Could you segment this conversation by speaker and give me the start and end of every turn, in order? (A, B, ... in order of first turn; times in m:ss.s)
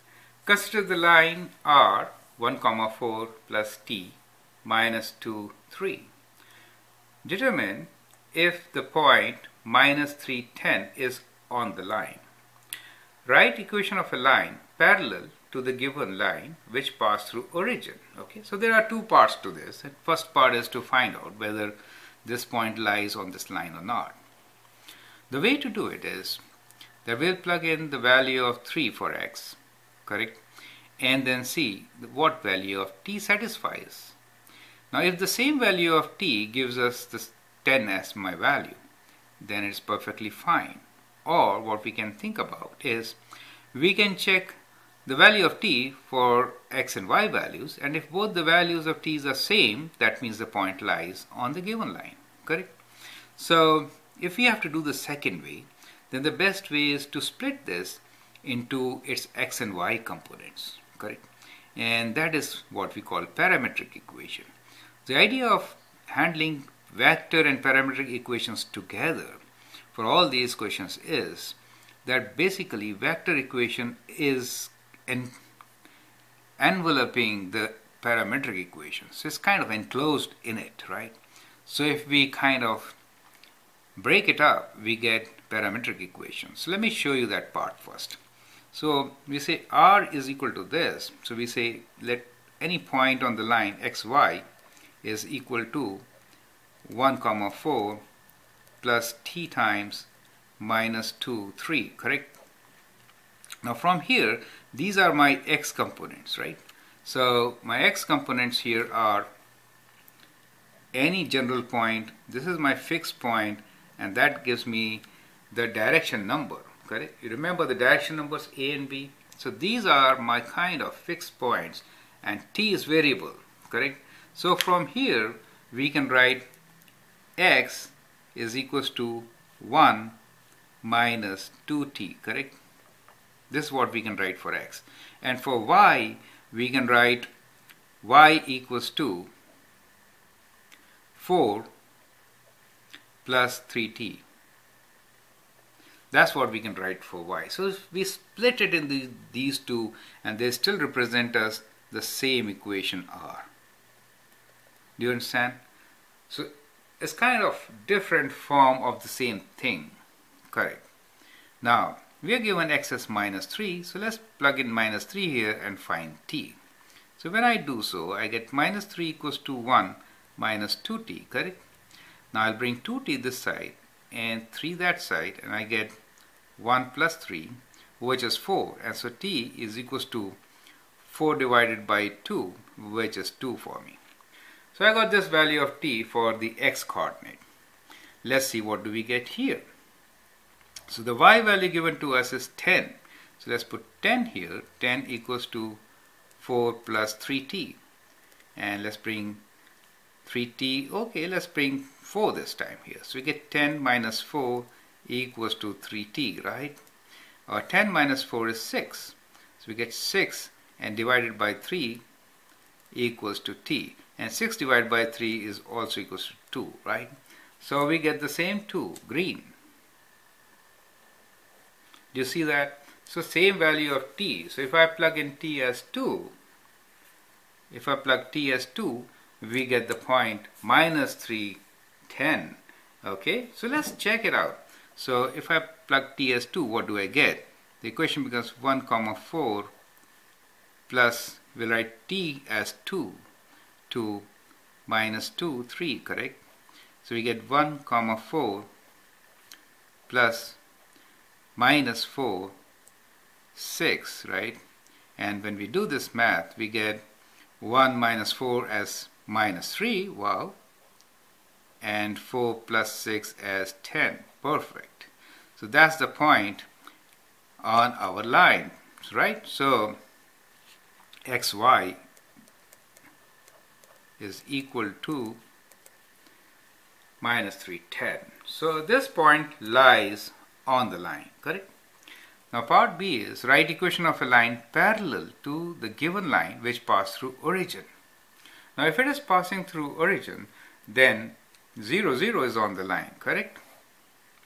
0:00.4-0:06.1 A
0:07.2-0:12.2 A
0:13.2-0:24.1 A
0:25.3-0:26.4 A
0:27.0-0:30.4 A
0:31.0-0:34.2 A
0:34.9-0:38.8 A
0:39.4-0:43.2 A
0:43.7-0:52.7 A
0:53.4-1:01.2 A
1:01.8-1:04.5 A
1:05.1-1:09.4 A
1:09.9-1:15.3 A
1:16.6-1:23.0 A
1:24.0-1:28.2 A
1:28.7-1:34.4 A
1:35.0-1:36.0 A
1:36.8-1:38.0 A
1:38.8-1:40.1 A
1:40.6-1:42.3 A
1:43.6-1:49.3 A
1:50.9-2:06.4 A
2:07.4-2:10.1 A
2:10.8-2:12.6 A
2:13.5-2:17.3 A
2:18.0-2:19.3 A
2:21.2-2:21.7 A
2:23.2-2:24.2 A
2:26.1-2:33.5 A
2:35.0-2:35.6 A
2:36.3-2:40.0 A
2:40.5-2:40.8 A
2:41.6-2:46.6 A
2:47.2-2:51.6 A
2:52.3-2:55.9 A
2:56.6-3:00.4 A
3:01.0-3:04.0 A
3:04.7-3:07.4 A
3:08.2-3:09.6 A
3:10.9-3:15.8 A
3:16.4-3:17.8 A
3:18.6-3:19.4 A
3:20.2-3:26.8 A
3:27.5-3:32.0 A
3:32.9-3:39.5 A
3:42.1-3:46.3 A
3:47.7-3:59.7 A
4:00.9-4:03.2 A
4:03.9-4:04.3 A
4:04.9-4:06.4 A
4:07.0-4:08.7 A
4:10.1-4:10.6 A
4:11.6-4:12.5 A
4:13.5-4:14.6 A
4:15.2-4:17.0 A
4:17.6-4:20.6 A
4:21.8-4:26.7 A
4:27.6-4:30.0 A
4:31.3-4:32.0 A
4:34.2-4:35.4 A
4:37.2-4:41.7 A
4:42.5-4:47.9 A
4:48.8-4:53.6 A